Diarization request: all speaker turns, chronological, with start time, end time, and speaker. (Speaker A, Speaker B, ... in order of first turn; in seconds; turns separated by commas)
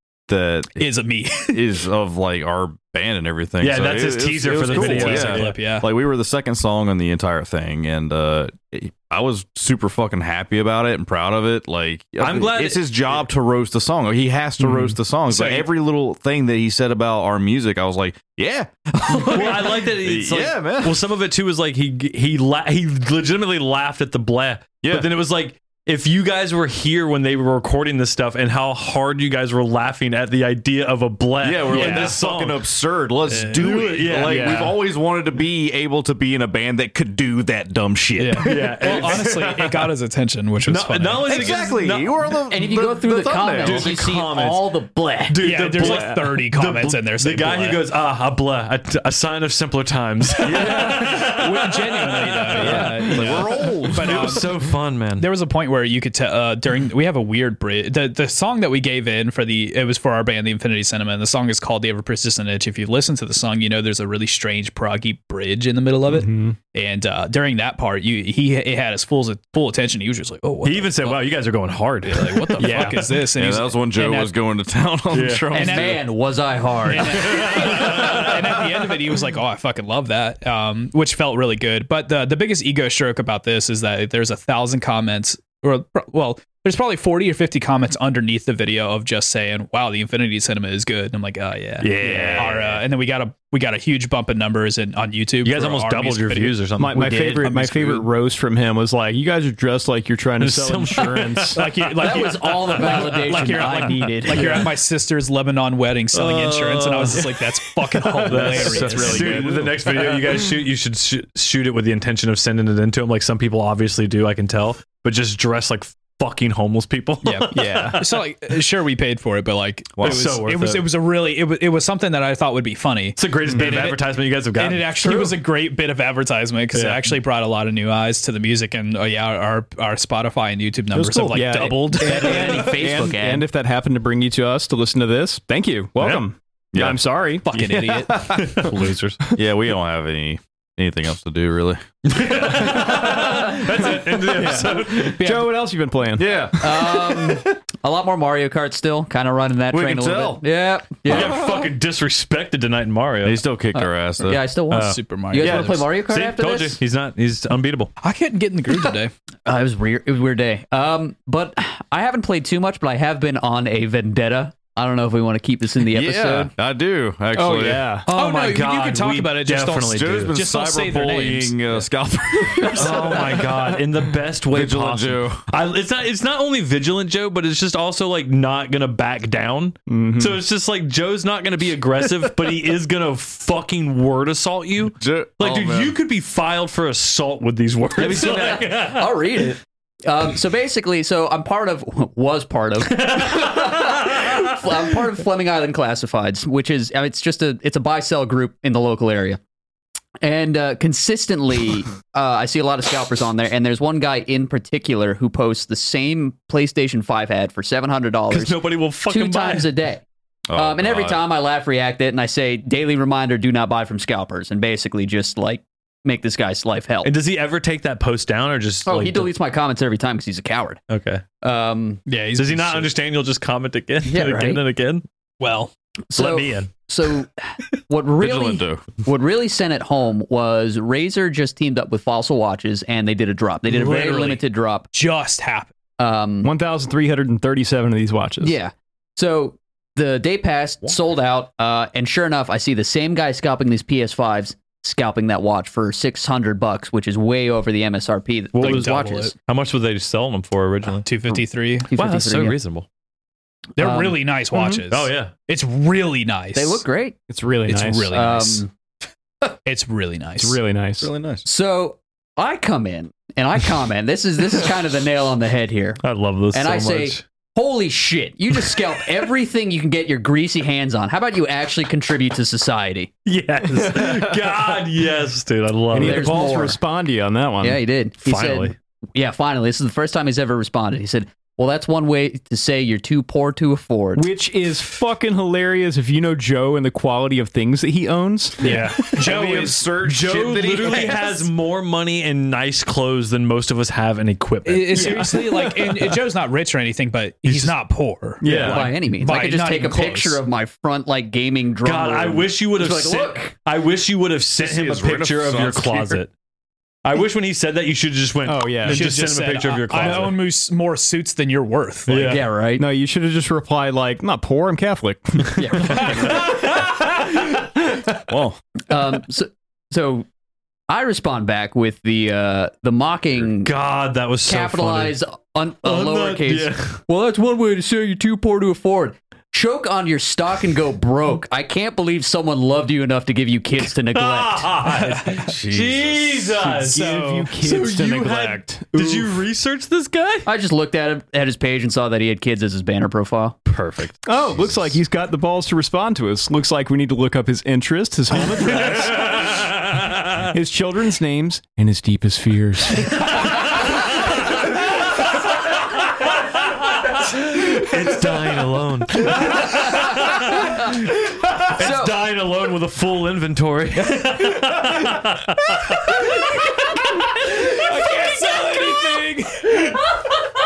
Speaker A: 0.3-0.9, Speaker B: 0.8-1.6, Speaker A: 1.5-21.0, Speaker C: 3.6-5.6, Speaker B: 4.5-5.9, Speaker C: 12.2-12.8, Speaker D: 14.6-14.9, Speaker B: 15.3-15.7, Speaker C: 19.1-32.6, Speaker A: 24.8-25.1, Speaker A: 31.4-39.5, Speaker D: 31.7-32.1, Speaker B: 33.3-33.8, Speaker C: 33.6-34.7, Speaker D: 34.2-34.7, Speaker B: 38.2-41.6, Speaker C: 38.4-39.4, Speaker C: 40.6-42.2, Speaker A: 41.3-43.9, Speaker E: 42.5-45.4, Speaker C: 43.6-53.4, Speaker B: 45.4-47.9, Speaker D: 45.8-46.2, Speaker A: 50.4-51.0, Speaker B: 50.5-54.5, Speaker D: 52.6-53.6, Speaker A: 52.6-54.5, Speaker C: 53.9-55.3, Speaker B: 55.2-71.2, Speaker D: 66.1-66.6, Speaker C: 70.6-73.1, Speaker B: 72.0-74.3, Speaker D: 72.6-73.1, Speaker A: 73.4-76.0, Speaker C: 75.1-75.6, Speaker E: 75.5-77.8, Speaker B: 75.5-76.0, Speaker B: 76.9-96.6, Speaker C: 77.1-78.3, Speaker C: 91.8-92.8, Speaker D: 92.0-92.5, Speaker C: 95.4-97.7, Speaker D: 96.8-101.6, Speaker B: 97.5-97.9, Speaker C: 100.4-103.7, Speaker B: 101.5-109.7, Speaker E: 102.0-104.7, Speaker C: 106.1-107.2, Speaker D: 108.0-110.5, Speaker C: 108.2-118.1, Speaker B: 117.2-132.7, Speaker D: 117.5-118.0, Speaker A: 120.0-120.3, Speaker C: 120.0-120.8, Speaker C: 123.2-125.3, Speaker C: 126.7-127.1, Speaker D: 130.9-138.0, Speaker E: 132.0-133.5, Speaker C: 136.0-136.3, Speaker A: 136.7-137.0, Speaker B: 137.4-138.2, Speaker A: 137.6-138.7, Speaker C: 138.3-139.2, Speaker A: 139.3-143.3, Speaker C: 142.1-145.3, Speaker D: 142.6-146.4, Speaker A: 146.2-147.3, Speaker E: 146.6-151.6, Speaker A: 149.7-150.4, Speaker A: 151.1-151.4, Speaker C: 151.1-153.4, Speaker A: 153.2-154.4, Speaker E: 153.8-156.8, Speaker C: 154.7-157.9, Speaker B: 154.7-155.8, Speaker B: 158.0-159.1, Speaker E: 159.5-166.5, Speaker A: 165.9-167.9, Speaker D: 167.3-168.1, Speaker C: 168.1-170.3, Speaker B: 168.1-171.8, Speaker A: 169.9-173.8, Speaker B: 172.6-173.1, Speaker C: 172.8-189.2, Speaker A: 174.5-175.5, Speaker D: 179.9-180.4, Speaker A: 185.0-186.0, Speaker A: 188.0-188.6, Speaker E: 188.0-199.4, Speaker C: 192.9-194.8, Speaker E: 200.2-210.0, Speaker C: 208.3-209.7, Speaker A: 210.5-211.2, Speaker E: 210.5-217.1, Speaker C: 217.0-219.3, Speaker E: 218.8-220.8, Speaker C: 220.9-221.2, Speaker E: 221.4-222.1, Speaker B: 222.1-222.9, Speaker C: 222.4-225.0, Speaker E: 224.1-224.6, Speaker B: 225.4-225.7, Speaker E: 226.1-234.9, Speaker C: 226.1-226.7, Speaker A: 228.2-228.9, Speaker B: 233.7-234.4, Speaker B: 234.9-235.7, Speaker E: 236.0-236.5, Speaker D: 236.4-238.6, Speaker E: 238.4-249.3, Speaker C: 248.5-251.1, Speaker B: 248.6-249.3, Speaker B: 251.0-251.9, Speaker E: 251.9-252.6, Speaker C: 251.9-252.9, Speaker B: 253.8-256.8, Speaker E: 253.8-254.2, Speaker C: 254.9-255.3, Speaker E: 256.6-257.1, Speaker D: 257.3-258.1, Speaker B: 257.6-258.6, Speaker E: 258.1-258.7, Speaker B: 259.6-260.6, Speaker D: 260.4-261.1, Speaker A: 261.0-261.5, Speaker E: 261.4-273.1, Speaker C: 266.0-267.2, Speaker C: 273.2-276.4, Speaker D: 273.9-274.3, Speaker D: 275.9-277.8, Speaker E: 275.9-276.8, Speaker E: 277.6-284.3, Speaker C: 278.2-278.8, Speaker D: 284.1-289.4, Speaker C: 288.6-295.4, Speaker B: 288.6-289.9, Speaker A: 289.3-291.4, Speaker B: 294.6-300.4, Speaker D: 294.9-296.1, Speaker C: 297.4-297.8, Speaker D: 298.4-299.0, Speaker E: 298.5-303.6, Speaker C: 301.8-306.3, Speaker A: 304.6-306.2, Speaker C: 307.0-310.4, Speaker D: 308.5-309.1, Speaker B: 308.9-312.4, Speaker D: 309.9-310.3, Speaker C: 312.1-312.5, Speaker D: 312.1-316.4, Speaker E: 312.3-312.9, Speaker E: 315.6-316.6, Speaker C: 315.8-317.6, Speaker A: 318.3-318.6, Speaker E: 318.9-320.3, Speaker E: 320.9-323.7, Speaker C: 323.6-325.1, Speaker E: 324.5-334.8, Speaker C: 325.8-327.0, Speaker C: 333.8-340.5, Speaker B: 334.8-335.6, Speaker A: 335.4-336.6, Speaker D: 336.6-339.4, Speaker B: 336.9-337.5, Speaker E: 340.5-343.6, Speaker C: 343.7-344.7, Speaker D: 344.3-349.7, Speaker C: 348.5-350.6, Speaker D: 350.4-353.6, Speaker C: 353.0-367.7, Speaker E: 359.4-361.0, Speaker E: 361.7-362.2, Speaker B: 367.6-369.9